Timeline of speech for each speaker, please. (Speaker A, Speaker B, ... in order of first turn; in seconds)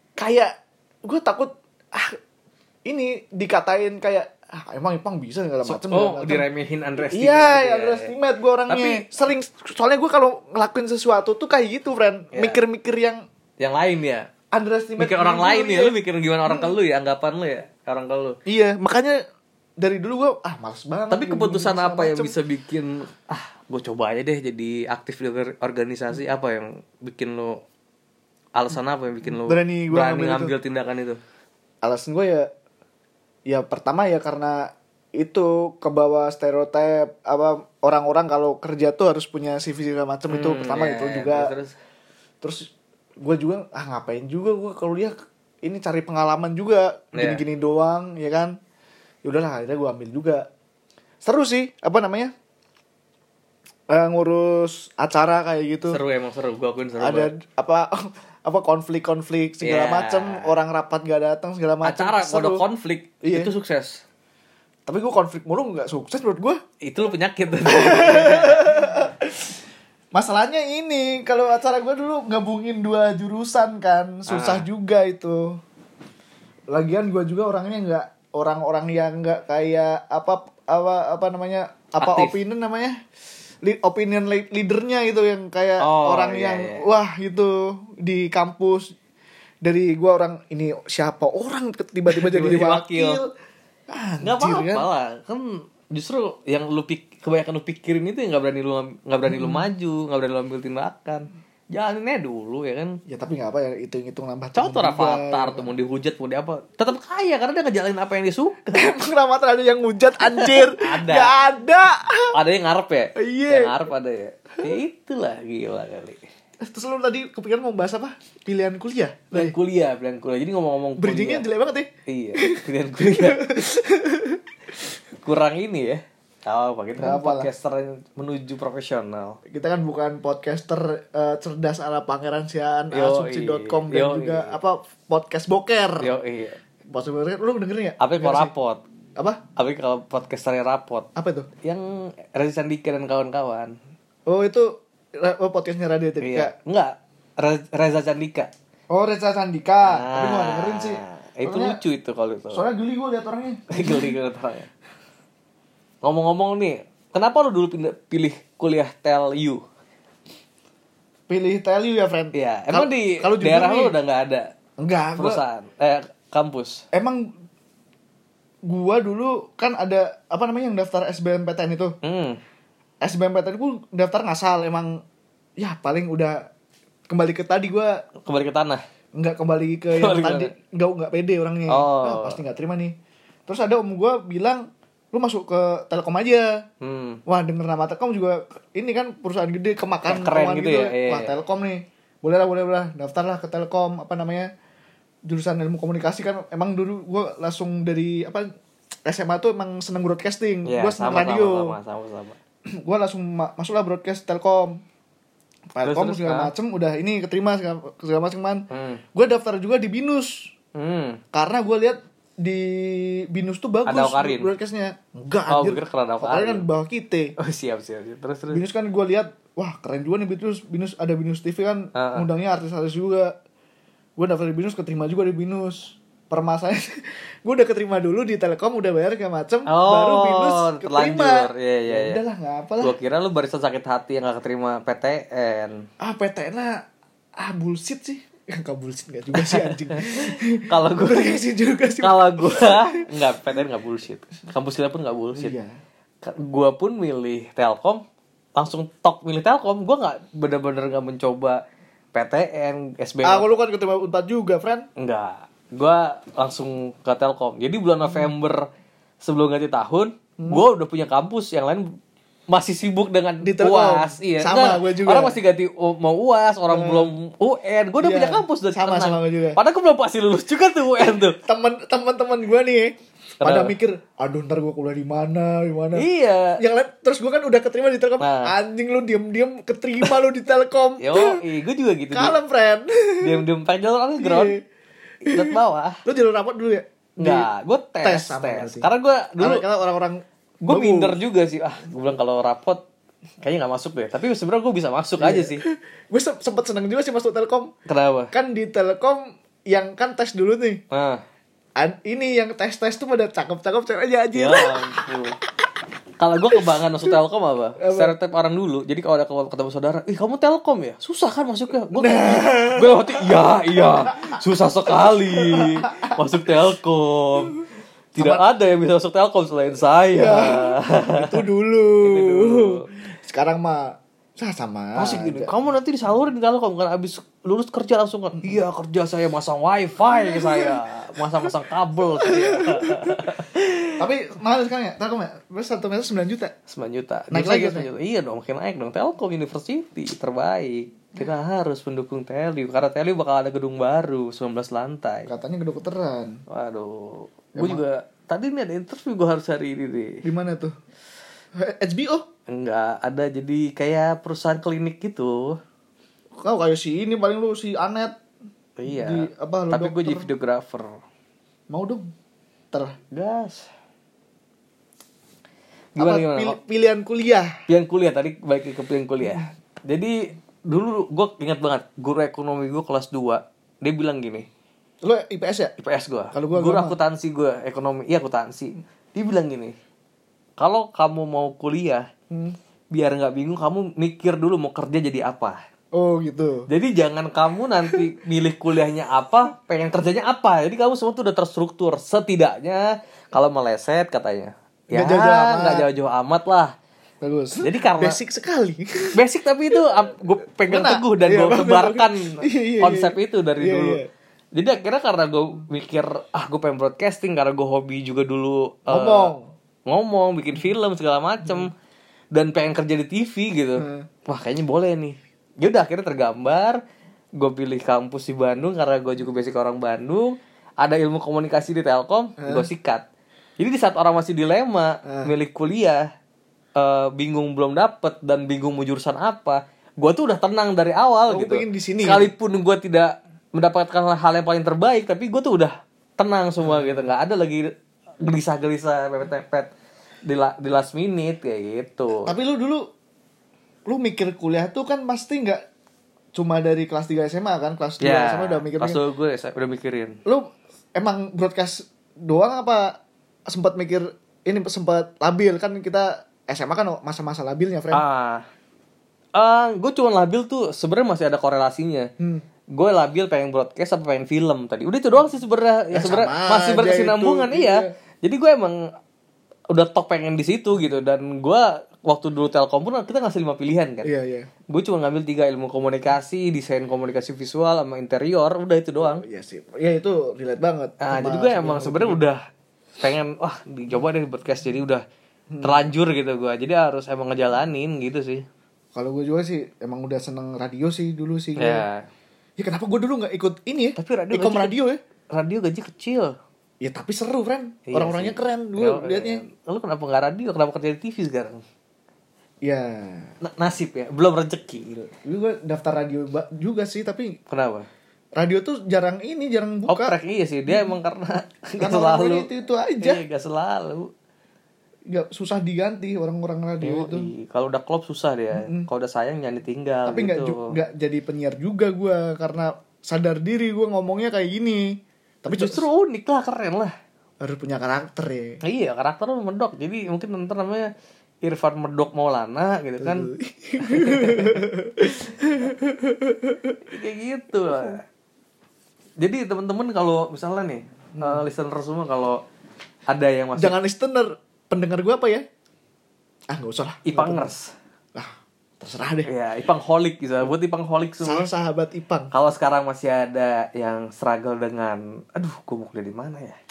Speaker A: 0.2-0.5, 1.1-2.2, 2.9-6.5, 7.0-13.2, 14.5-15.9, 16.5-16.7, 18.5-19.2, 19.8-22.3, 29.4-30.5, 31.8-32.5, 33.5-41.5, 42.4-48.6, 49.2-50.5, 51.2-52.3, 53.9-56.0, 57.0-62.6, 63.2-63.5, 64.9-66.6, 67.7-69.5, 70.1-75.6, 76.7-83.0, 83.6-88.9, 89.6-93.3, 93.9-94.9, 99.3-99.6, 103.1-105.7, 108.7-112.3, 113.2-113.8, 116.6-119.5, 121.0-124.4, 127.0-127.5, 129.5-136.1, 136.9-138.5, 141.2-141.5, 144.3-146.5, 148.9-151.8, 152.5-154.1, 161.3-163.9, 164.8-165.4, 166.9-167.3, 168.7-172.0, 173.0-175.0, 175.6-176.4, 177.1-178.0, 179.2-182.9, 183.5-186.6, 187.3-194.5, 195.3-198.5, 199.1-201.8, 202.7-204.8, 205.8-210.5, 211.3-217.3, 218.5-223.3, 224.2-232.9, 236.0-236.8, 237.4-243.1, 245.3-245.8, 253.2-254.9, 263.4-265.4, 266.7-267.1, 268.0-269.6, 271.4-281.4, 282.1-283.4, 284.2-284.6, 285.3-287.5, 288.0-288.9, 289.4-291.2, 295.2-297.7, 298.3-300.8, 301.8-305.1, 307.8-308.1, 311.9-314.3, 314.9-316.2, 318.2-318.4, 320.1-325.6, 330.1-330.8, 332.2-333.2, 334.0-336.5, 337.3-337.9, 345.3-346.4, 347.6-347.8, 350.2-350.7, 351.6-352.3, 356.4-358.2, 358.9-360.3, 361.7-362.1, 366.0-367.5, 375.0-375.7, 376.3-377.0, 382.3-382.6, 385.9-386.7, 394.9-395.9, 397.2-399.1, 400.7-404.1, 408.9-409.5, 413.8-414.1, 422.4-422.7, 425.0-425.3, 431.3-432.3, 436.6-437.1, 442.2-442.9, 443.9-445.6, 446.4-449.0, 450.3-458.0, 465.9-467.9, 474.0-474.5, 479.0-482.2, 485.5-485.8, 488.9-491.9, 492.6-495.0, 496.8-499.4, 502.6-503.3, 505.2-507.4, 508.4-510.1, 510.7-510.9, 511.8-513.2, 515.1-517.3, 518.5-518.9, 520.1-525.9, 527.4-528.6, 533.0-536.8, 541.2-541.4, 543.6-545.5, 546.5-547.5, 548.1-549.3, 551.2-552.3
Speaker B: 5.7-8.1, 8.7-9.1, 12.3-12.6, 13.6-14.3, 15.0-18.4, 21.1-27.6, 28.6-31.2, 40.3-41.7, 47.1-47.4, 55.9-57.3, 59.6-60.5, 61.8-64.0, 66.8-68.8, 74.3-74.7, 82.0-82.4, 85.8-86.8, 92.1-93.2, 94.2-103.0, 104.6-108.9, 110.2-111.3, 112.3-116.2, 119.3-121.5, 122.1-123.5, 125.2-129.4, 132.9-134.6, 136.0-136.6, 138.0-138.8, 139.6-141.1, 141.6-143.8, 146.2-148.5, 149.8-152.6, 153.7-154.7, 156.0-159.6, 162.3-164.5, 165.2-166.8, 172.0-172.4, 178.2-178.8, 180.0-180.5, 181.7-182.4, 186.8-187.2, 190.1-191.3, 200.7-202.3, 205.8-206.5, 208.7-209.0, 210.8-211.2, 213.9-214.5, 215.5-216.7, 217.4-218.6, 221.9-222.3, 229.7-232.2, 232.8-235.8, 239.3-241.4, 242.0-245.6, 246.2-248.0, 248.6-251.6, 252.1-253.5, 255.0-258.7, 259.2-261.9, 262.5-271.4, 273.4-273.8, 275.9-276.6, 278.2-278.5, 281.0-282.4, 283.2-284.6, 285.2-286.0, 287.2-289.6, 290.6-292.8, 293.4-295.6, 297.9-298.3, 300.9-301.2, 304.4-305.4, 306.2-317.6, 318.1-321.4, 322.0-322.9, 324.9-334.1, 336.7-345.3, 346.5-350.2, 352.5-355.6, 358.8-361.0, 363.1-363.7, 366.0-366.6, 367.7-374.5, 375.8-379.8, 380.6-382.1, 382.9-385.6, 386.7-396.8, 397.6-398.2, 399.1-404.0, 404.6-409.3, 409.9-411.7, 412.3-416.8, 417.4-423.0, 423.6-426.0, 426.8-437.7, 438.2-439.7, 440.2-442.3, 448.0-450.2, 457.9-458.4, 459.4-462.1, 462.7-468.8, 469.7-474.1, 474.7-479.2, 481.0-482.4, 483.0-485.0, 485.6-488.4, 491.6-492.1, 494.0-494.7, 495.3-496.4, 497.9-501.6, 503.4-505.1, 507.5-507.9, 509.9-512.5, 513.0-514.1, 516.8-520.7, 525.5-526.9, 528.6-530.9, 531.4-533.3, 533.8-534.7, 536.9-538.0, 539.2-542.4, 543.1-543.8, 547.1-547.7, 549.3-551.5, 552.3-556.6